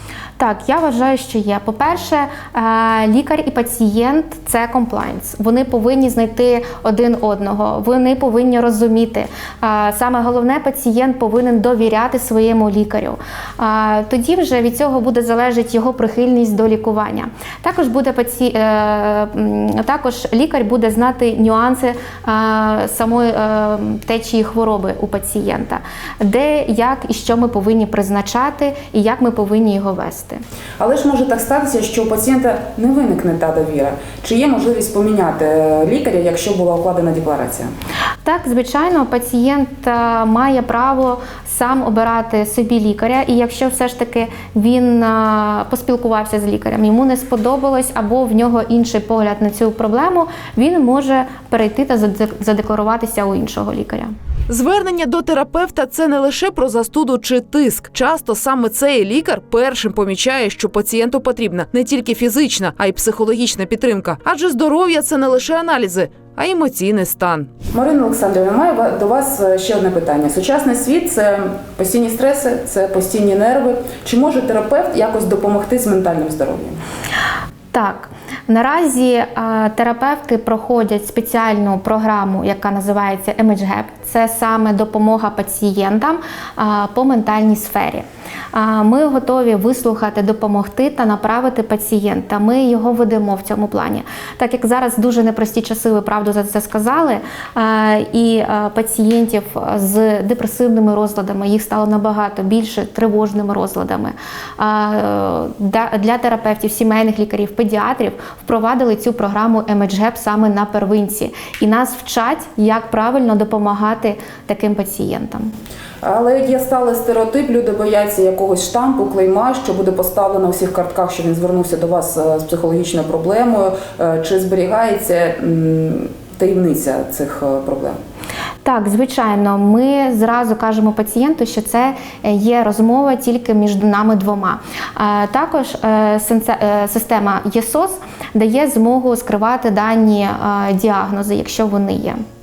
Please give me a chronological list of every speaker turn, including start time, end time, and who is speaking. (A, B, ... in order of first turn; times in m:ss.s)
0:00.4-0:30.4 A
0:30.8-0:37.7 B
0:38.2-0:54.1 A
0:54.5-1:07.6 C
1:07.7-1:16.8 B
1:17.7-1:55.5 A
1:56.0-2:08.0 B
2:08.6-2:22.2 A